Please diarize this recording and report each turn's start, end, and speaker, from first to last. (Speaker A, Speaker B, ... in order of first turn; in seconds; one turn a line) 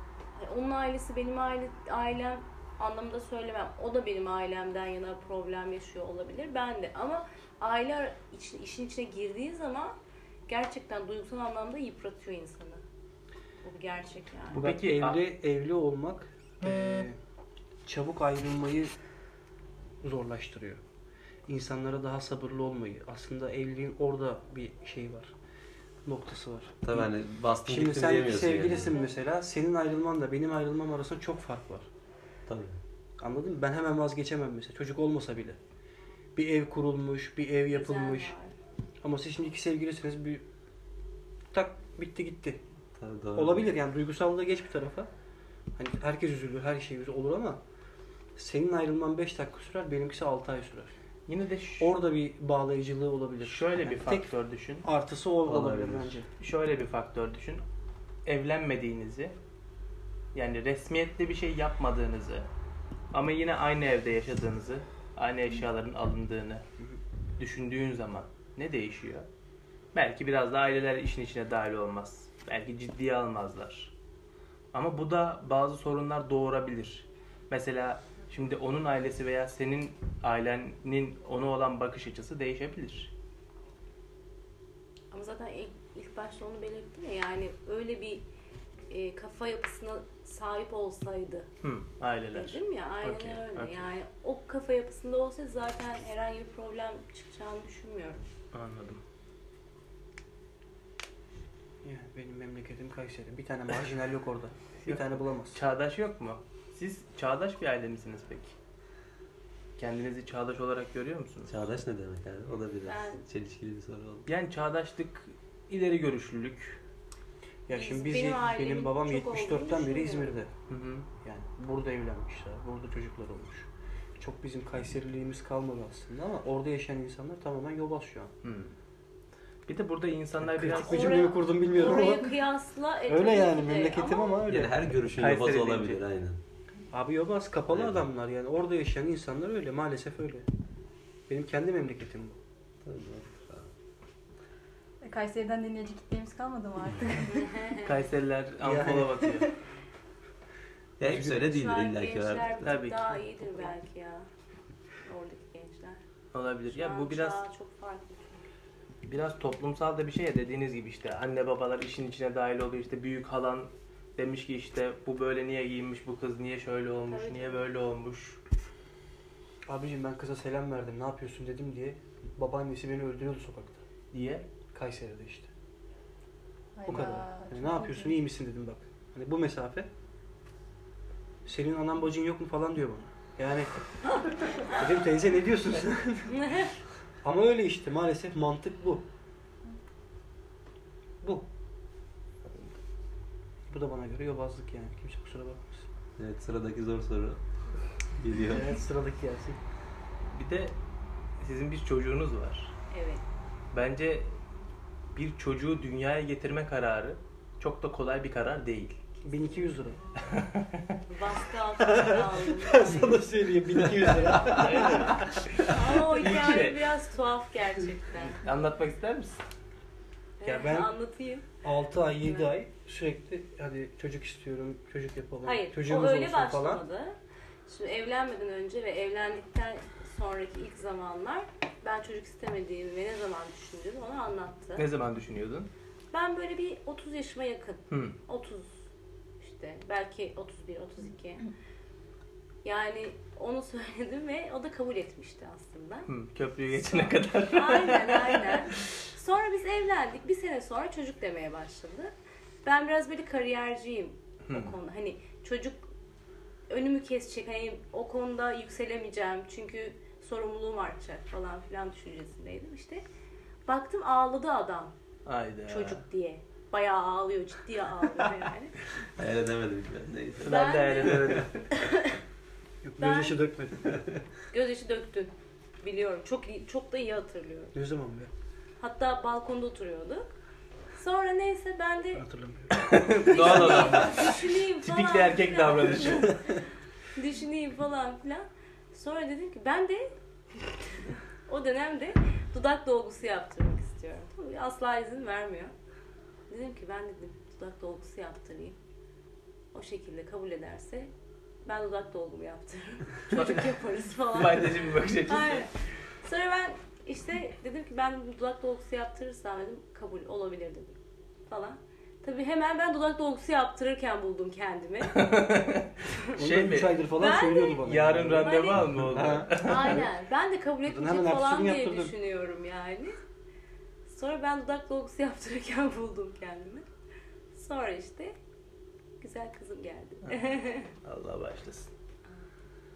Speaker A: 0.4-12.8
Speaker A: 13.6-14.6
Speaker B: 14.5-15.2
Speaker C: 14.5-17.2
Speaker C: 17.9-18.9
Speaker C: 20.0-20.8
Speaker C: 21.5-25.3
Speaker C: 26.1-27.1
Speaker D: 26.8-28.9
Speaker C: 27.7-31.9
Speaker A: 28.6-29.1
Speaker D: 32.5-32.8
Speaker C: 33.2-35.6
Speaker C: 36.4-38.3
Speaker A: 37.7-38.5
Speaker C: 39.0-40.4
Speaker C: 41.5-42.6
Speaker D: 43.0-43.7
Speaker C: 43.4-45.1
Speaker C: 45.8-47.6
Speaker C: 48.4-51.0
Speaker B: 51.3-52.0
Speaker C: 51.8-54.3
Speaker B: 53.4-54.9
Speaker C: 54.8-56.3
Speaker D: 55.5-56.2
Speaker B: 56.4-57.6
Speaker B: 58.2-59.3
Speaker B: 60.4-62.5
Speaker B: 63.1-66.6
Speaker B: 67.4-69.3
Speaker B: 69.9-73.9
Speaker B: 74.7-83.1
Speaker A: 85.1-88.2
Speaker A: 88.9-91.5
Speaker B: 91.6-93.9
Speaker A: 92.3-98.2
Speaker B: 98.5-99.0
Speaker C: 101.8-105.6
Speaker B: 104.8-108.5
Speaker B: 109.8-111.5
Speaker D: 111.5-114.3
Speaker A: 112.9-113.2
Speaker B: 114.3-116.8
Speaker C: 117.7-120.5
Speaker A: 117.7-120.3
Speaker B: 120.7-121.1
Speaker C: 121.2-128.3
Speaker B: 128.4-128.7
Speaker B: 129.7-131.3
Speaker C: 130.4-132.4
Speaker A: 130.7-134.5
Speaker C: 133.1-135.0
Speaker D: 134.5-136.4
Speaker B: 135.2-136.0
Speaker C: 136.9-140.5
Speaker D: 137.7-138.1
Speaker C: 141.3-142.4
Speaker D: 142.8-143.7
Speaker E: 145.0-147.7
Speaker A: 147.3-147.9
Speaker B: 147.8-149.5
Speaker C: 148.6-149.3
Speaker D: 151.0-152.7
Speaker C: 151.0-151.5
Speaker A: 151.3-154.3
Speaker B: 152.6-153.0
Speaker A: 155.1-156.0
Speaker B: 156.3-157.4
Speaker A: 156.7-158.4
Speaker B: 159.1-168.4
Speaker A: 167.1-167.6
Speaker C: 169.7-173.8
Speaker B: 174.1-174.4
Speaker C: 174.7-175.5
Speaker E: 176.8-178.2
Speaker C: 176.9-179.9
Speaker B: 176.9-177.2
Speaker C: 181.4-183.7
Speaker C: 184.6-186.5
Speaker A: 186.3-186.7
Speaker C: 187.2-189.0
Speaker C: 193.7-195.9
Speaker D: 196.2-197.4
Speaker D: 198.2-198.8
Speaker C: 198.5-199.6
Speaker B: 200.3-200.8
Speaker B: 201.4-202.7
Speaker A: 202.9-203.2
Speaker B: 203.7-204.3
Speaker B: 205.1-209.0
Speaker C: 209.2-210.0
Speaker B: 210.3-210.8
Speaker A: 211.1-213.2
Speaker C: 211.8-215.2
Speaker D: 214.4-214.6
Speaker B: 214.4-216.8
Speaker A: 215.6-218.4
Speaker B: 218.4-219.4
Speaker A: 220.4-221.5
Speaker C: 220.4-220.9
Speaker C: 221.6-226.8
Speaker A: 225.4-227.2
Speaker A: 227.7-234.9
Speaker B: 234.8-235.7
Speaker A: 236.1-238.8
Speaker B: 237.9-238.2
Speaker A: 239.4-241.5
Speaker A: 242.6-246.1
Speaker B: 246.1-248.8
Speaker A: 246.8-252.1
Speaker A: 252.6-255.9
Speaker B: 254.5-254.7
Speaker A: 256.7-263.0
Speaker A: 263.7-264.9
Speaker B: 265.2-266.0
Speaker A: 265.7-268.8
Speaker D: 269.2-271.4
Speaker B: 270.4-271.6
Speaker A: 270.4-272.2
Speaker C: 272.8-274.0
Speaker A: 273.0-273.4
Speaker A: 274.5-277.8
Speaker C: 277.7-278.3
Speaker A: 278.8-280.3
Speaker A: 280.9-282.2
Speaker C: 282.1-284.1
Speaker B: 282.7-286.4
Speaker A: 283.2-286.6
Speaker D: 283.3-284.2
Speaker A: 287.1-295.7
Speaker A: 296.5-298.8
Speaker A: 299.7-301.1
Speaker A: 301.6-305.7
Speaker B: 303.3-305.7
Speaker A: 306.2-311.0
Speaker A: 311.5-315.3
Speaker B: 315.1-317.0
Speaker C: 316.3-320.1
Speaker A: 317.2-317.8
Speaker B: 317.8-320.0
Speaker A: 318.4-318.8
Speaker A: 319.5-323.2
Speaker C: 320.9-322.1
Speaker A: 324.1-326.9
Speaker A: 327.5-328.4
Speaker A: 329.2-330.9
Speaker B: 330.2-331.9